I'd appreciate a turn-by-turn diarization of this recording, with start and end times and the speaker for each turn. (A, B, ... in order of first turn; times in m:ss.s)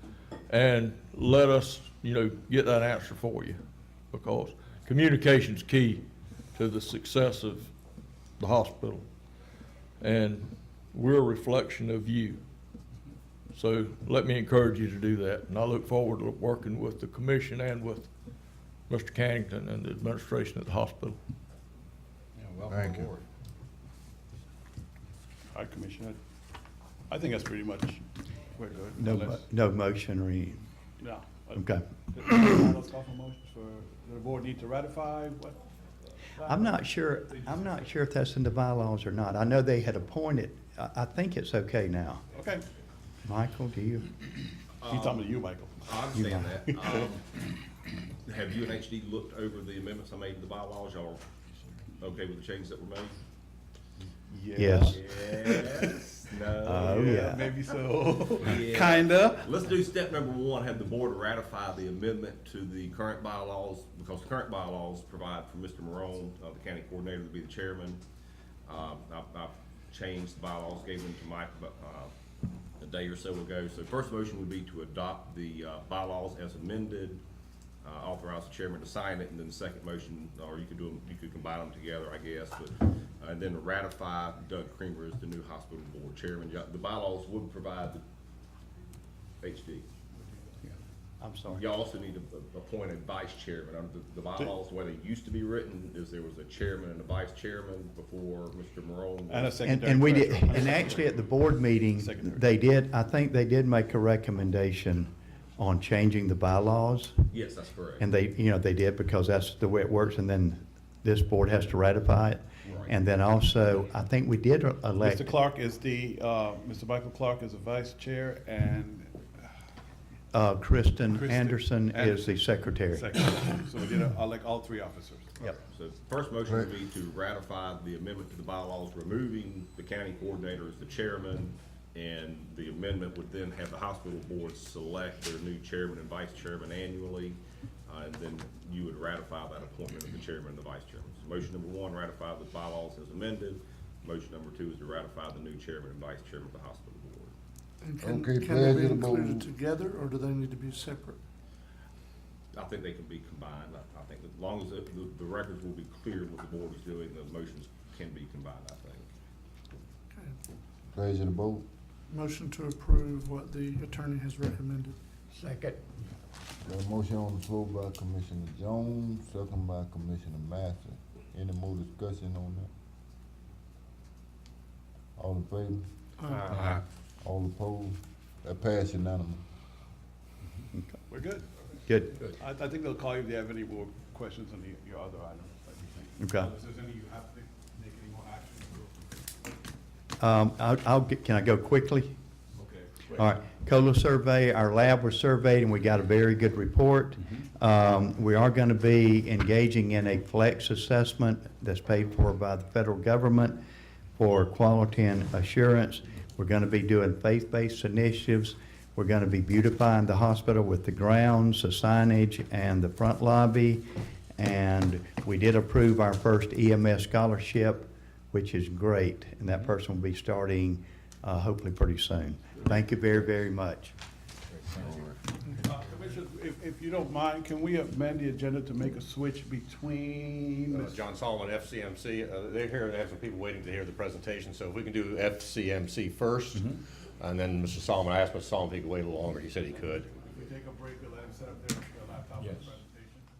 0:00.5-0:03.6 A
0:04.1-0:07.7 A
0:08.4-0:09.2 A
0:10.0-0:12.4 A
0:13.5-0:18.1 A
0:18.9-0:21.2 A
0:22.4-0:23.2 B
0:22.7-0:23.1 C
0:25.5-0:26.2 D
0:27.1-0:29.4 D
0:28.9-0:30.6 E
0:31.0-0:35.6 D
0:31.6-0:31.8 E
0:36.4-0:36.8 D
0:36.4-0:42.2 E
0:42.3-0:42.6 D
0:43.2-0:44.1 E
0:44.8-0:45.2 F
0:44.8-0:47.0 D
0:45.8-0:47.2 F
0:46.1-0:46.6 E
0:48.2-0:51.2 F
0:52.0-0:53.1 F
0:54.3-0:55.9 D
0:54.6-0:55.0 E
0:54.9-0:57.2 F
0:56.6-0:57.5 E
0:56.7-0:59.5 D
0:58.4-1:08.0 F
1:08.7-1:12.1 F
1:12.8-1:17.2 F
1:17.8-1:28.0 F
1:29.4-1:29.9 F
1:31.2-1:31.6 E
1:31.5-1:39.6 F
1:39.3-1:42.5 D
1:39.6-1:47.2 E
1:40.5-1:41.1 F
1:47.3-1:48.0 F
1:48.0-1:55.3 E
1:52.6-1:52.9 F
1:55.0-1:59.2 D
2:00.3-2:03.1 E
2:01.0-2:05.4 D
2:05.5-2:27.3 F
2:27.8-2:31.2 G
2:28.0-2:29.5 C
2:32.5-2:39.1 F
2:40.9-2:41.6 C
2:42.1-2:45.0 G
2:45.3-2:45.8 E
2:46.6-2:52.7 C
2:55.2-2:56.7 C
2:56.3-2:56.8 B
2:57.2-2:59.4 C
3:01.1-3:01.5 D
3:01.9-3:02.2 E
3:02.2-3:09.0 D
3:06.2-3:06.5 E
3:10.2-3:12.1 E
3:12.6-3:13.3 D
3:13.1-3:23.6 E
3:24.2-3:33.8 E
3:34.4-3:43.9 E
3:44.7-3:45.0 B
3:45.6-3:51.0 D
3:50.7-4:00.1 B
4:00.3-4:03.2 D